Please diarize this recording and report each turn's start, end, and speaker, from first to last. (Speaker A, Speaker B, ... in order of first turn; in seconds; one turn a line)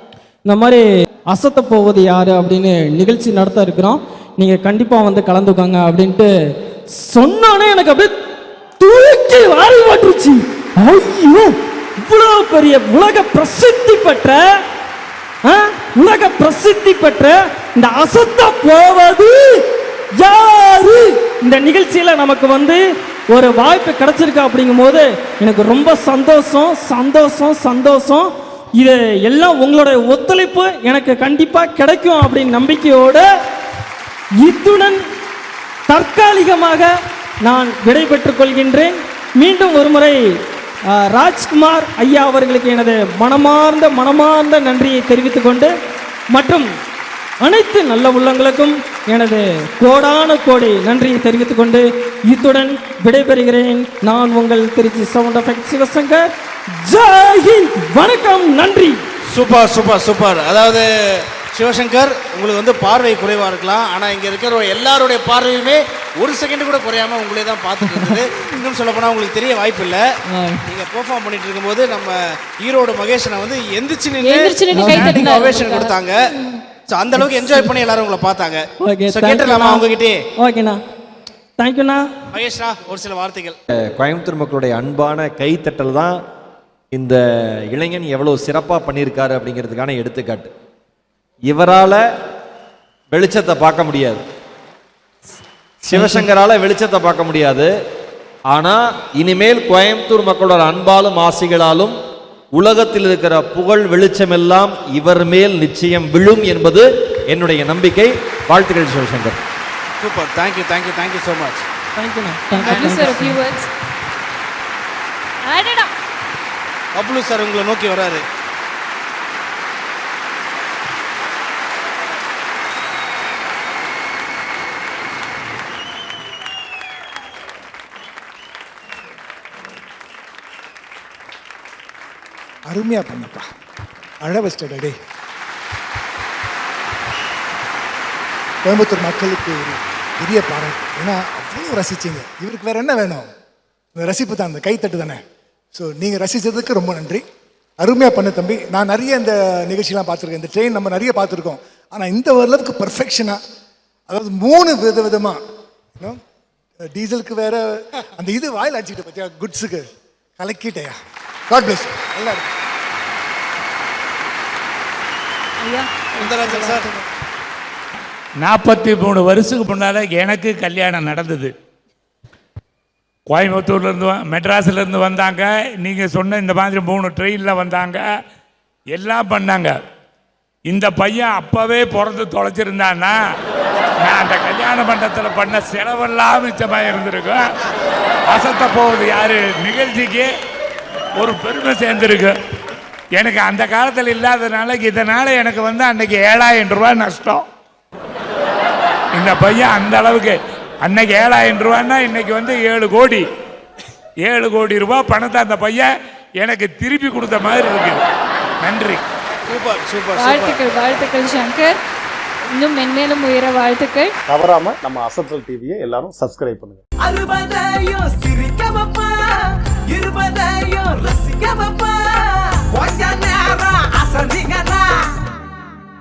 Speaker A: 0.5-6.3
Speaker A: 6.9-8.2
Speaker A: 8.8-14.4
Speaker A: 15.4-33.3
Speaker A: 34.4-35.0
Speaker A: 35.9-36.9
Speaker A: 37.4-40.2
Speaker A: 40.9-45.7
Speaker A: 46.3-46.7
Speaker A: 47.4-56.2
Speaker A: 56.8-59.0
Speaker B: 59.3-70.0
Speaker A: 67.9-68.2
Speaker A: 70.3-70.6
Speaker B: 70.6-76.2
Speaker C: 74.2-75.9
Speaker A: 74.7-75.3
Speaker B: 76.9-80.2
Speaker A: 77.2-77.7
Speaker A: 78.8-79.8
Speaker A: 80.4-80.8
Speaker A: 81.6-82.1
Speaker B: 82.3-83.6
Speaker D: 83.7-86.2
Speaker D: 86.9-90.5
Speaker D: 91.5-92.0
Speaker D: 93.1-94.2
Speaker D: 95.8-97.7
Speaker A: 95.9-96.2
Speaker D: 98.5-102.0
Speaker D: 102.5-109.4
Speaker B: 110.0-111.7
Speaker A: 112.0-113.4
Speaker C: 112.5-113.7
Speaker C: 115.5-115.9
Speaker B: 117.0-118.2
Speaker E: 132.7-133.5
Speaker E: 134.2-135.0
Speaker E: 138.6-143.3
Speaker E: 143.9-145.2
Speaker E: 145.7-147.2
Speaker E: 147.8-153.4
Speaker E: 154.1-155.4
Speaker E: 156.9-157.6
Speaker E: 158.2-159.9
Speaker E: 160.4-161.0
Speaker E: 161.5-162.5
Speaker C: 165.6-166.8
Speaker B: 166.1-166.9
Speaker F: 168.4-171.5
Speaker F: 173.3-178.0
Speaker F: 178.9-179.7
Speaker F: 180.7-183.2
Speaker F: 184.0-187.4
Speaker F: 188.3-190.3
Speaker F: 191.2-192.3
Speaker F: 193.2-197.4
Speaker F: 199.1-203.2
Speaker F: 204.3-205.9
Speaker F: 206.4-208.0
Speaker F: 208.6-209.0
Speaker B: 209.5-210.6
Speaker C: 210.2-211.7
Speaker C: 212.5-214.1
Speaker G: 214.3-216.8
Speaker H: 217.0-219.3
Speaker H: 219.9-225.1